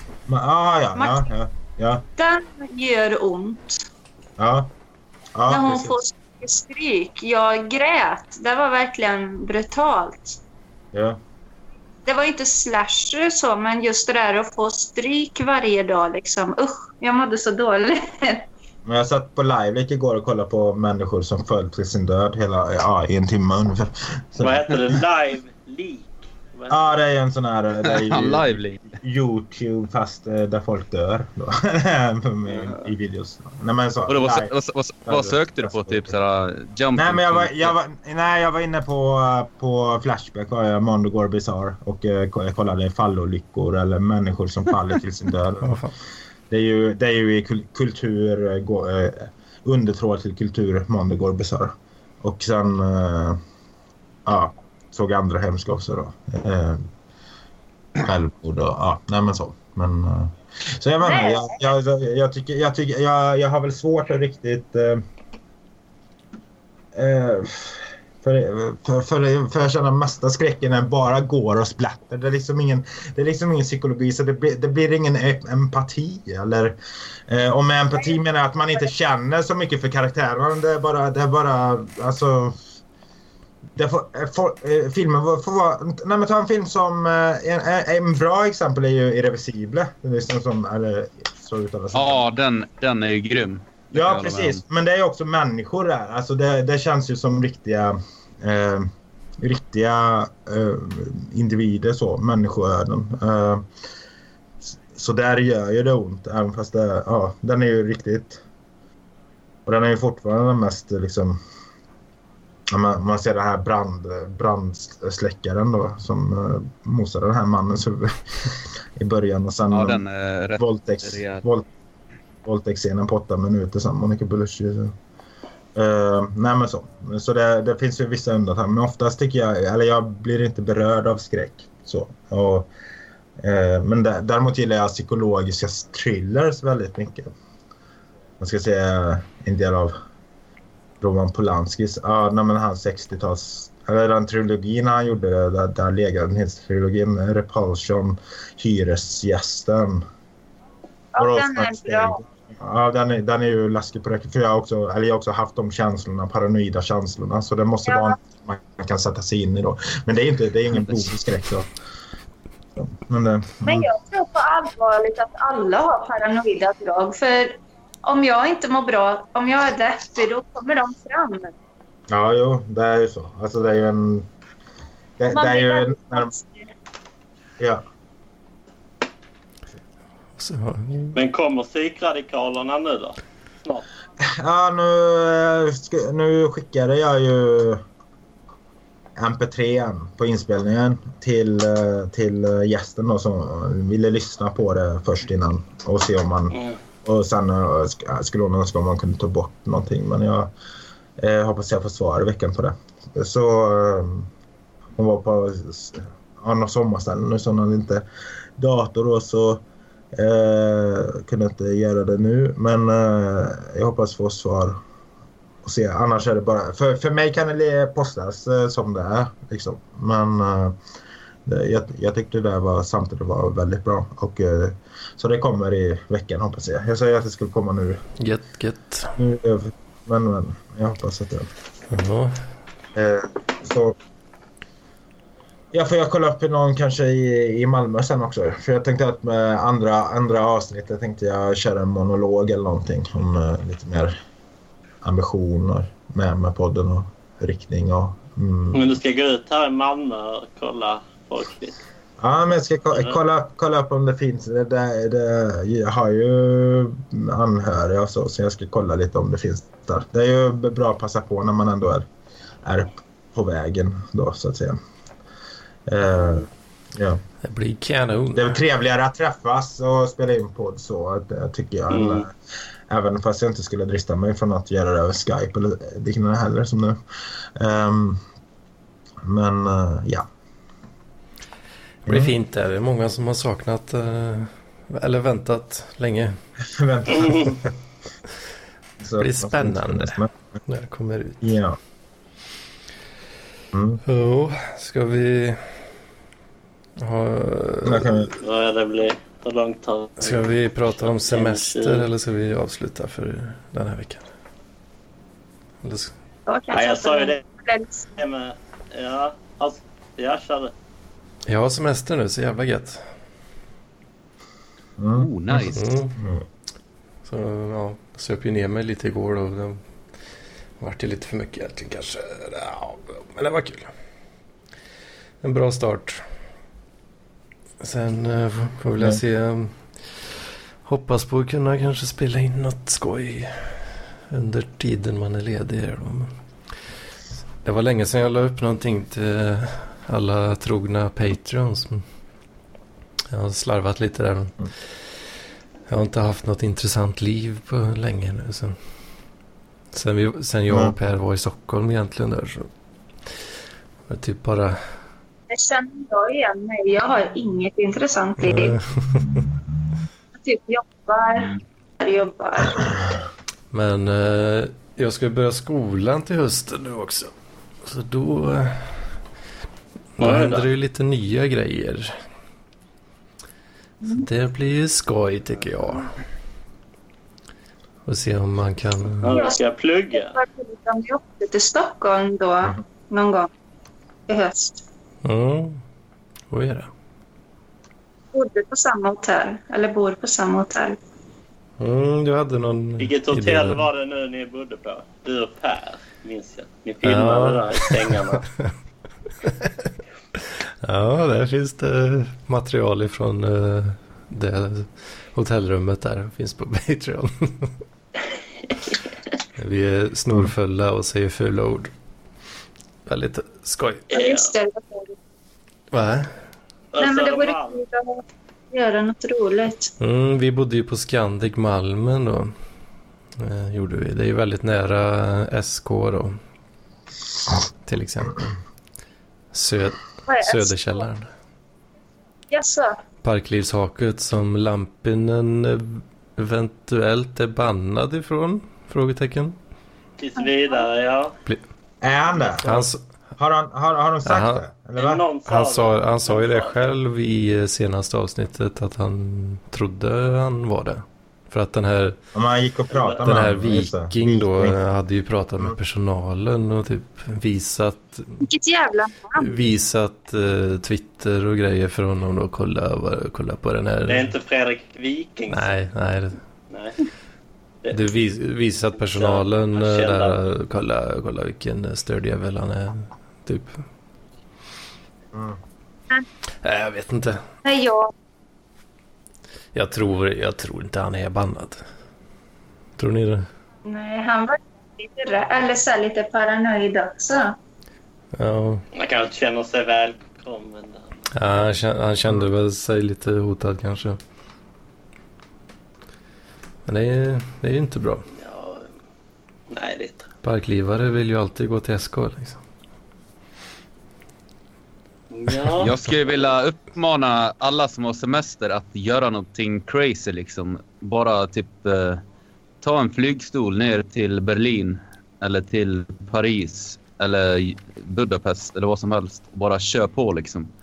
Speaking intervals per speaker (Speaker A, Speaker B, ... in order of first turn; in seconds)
Speaker A: 0.3-2.0, 4.4-4.7, 5.3-6.0, 10.9-11.2, 18.9-25.0, 26.7-34.5, 35.1-36.1, 36.9-45.9, 46.5-53.4, 54.2-56.9, 58.0-65.0, 66.9-76.8, 77.3-82.6, 83.8-92.2, 93.9-103.7, 104.9-108.4, 109.7-111.4, 112.7-120.0, 120.6-121.7, 122.4-124.9, 125.7-132.7, 133.4-137.3, 138.4-139.9, 141.0-150.0, 151.2-161.7, 162.8-163.9, 172.1-174.3, 175.2-176.3, 184.2-187.8, 189.2-200.5, 201.2-204.3, 205.0-208.0, 208.6-214.8, 215.6-220.8, 221.4-228.0, 229.2-231.5, 232.9-233.9, 235.7-244.2, 245.0-248.9, 252.2-262.1, 262.6-264.8, 265.9-267.2, 268.3-272.3, 272.9-277.0, 277.6-278.2, 279.2-280.3, 282.1-282.3, 286.6-287.7, 289.0-290.3, 291.4-291.8, 293.7-294.0, 297.8-298.3, 315.0-316.4, 350.7-350.9, 442.0-442.8, 443.4-445.2, 452.3-454.8, 475.3-475.6
Speaker B: 0.9-1.3, 2.2-3.8, 5.5-10.4, 12.1-18.5, 61.0-61.6, 151.1-152.2, 157.8-158.2, 163.6-171.5, 175.3-176.7, 306.5-308.1, 355.5-358.8, 360.4-363.1, 379.3-379.6, 380.1-383.5, 384.3-384.8, 388.3-391.0, 414.1-415.1, 417.0-419.9, 430.3-431.0, 432.5-433.0, 440.4-440.8, 458.4-459.6, 477.6-478.1, 483.8-487.6
Speaker C: 24.4-27.0, 32.5-32.9, 181.1-183.8, 248.7-251.8, 271.9-272.3, 287.2-287.5, 298.3-302.1, 306.7-307.4, 308.2-310.7, 370.2-370.7, 379.2-380.4, 393.0-398.4, 414.1-414.5, 416.9-417.8, 440.2-441.4, 444.9-446.9, 452.9-453.2, 464.1-465.7, 466.7-467.0, 469.0-470.4, 488.9-491.1, 498.3-498.9, 499.7-500.3, 505.3-506.0
Speaker D: 27.8-28.9, 34.1-37.7, 91.9-94.6, 119.7-121.4, 315.1-315.9, 505.8-512.2, 512.8-520.7
Speaker E: 45.6-45.9, 180.4-181.2, 228.2-229.2, 231.9-232.3, 267.4-268.5, 282.0-286.4, 289.2-291.6, 294.0-295.6, 297.0-298.2, 300.2-304.2, 305.8-306.1, 311.5-313.0, 315.7-316.1, 317.2-319.8, 320.8-323.9, 325.4-326.2, 327.8-329.8, 330.8-336.3, 337.6-342.0, 343.3-344.6, 345.9-348.8, 349.9-352.7, 354.1-354.8, 358.4-359.4, 363.7-367.3, 367.8-369.0, 370.2-372.1, 374.1-376.1, 378.1-379.3, 385.2-385.8, 386.5-386.9, 391.8-393.8, 397.0-398.1, 399.4-399.9, 400.8-407.7, 409.6-411.9, 413.1-414.0, 415.9-416.3, 420.0-422.5, 423.4-426.4, 427.8-428.5, 429.5-431.3, 433.2-439.6, 442.6-443.0, 444.2-444.6, 445.4-452.2, 453.2-458.4, 459.4-464.3, 465.5-466.4, 467.9-473.8, 476.6-477.4, 479.7-481.8, 483.0-483.4, 488.3-488.8, 491.3-494.2, 496.9-498.3, 500.4-502.6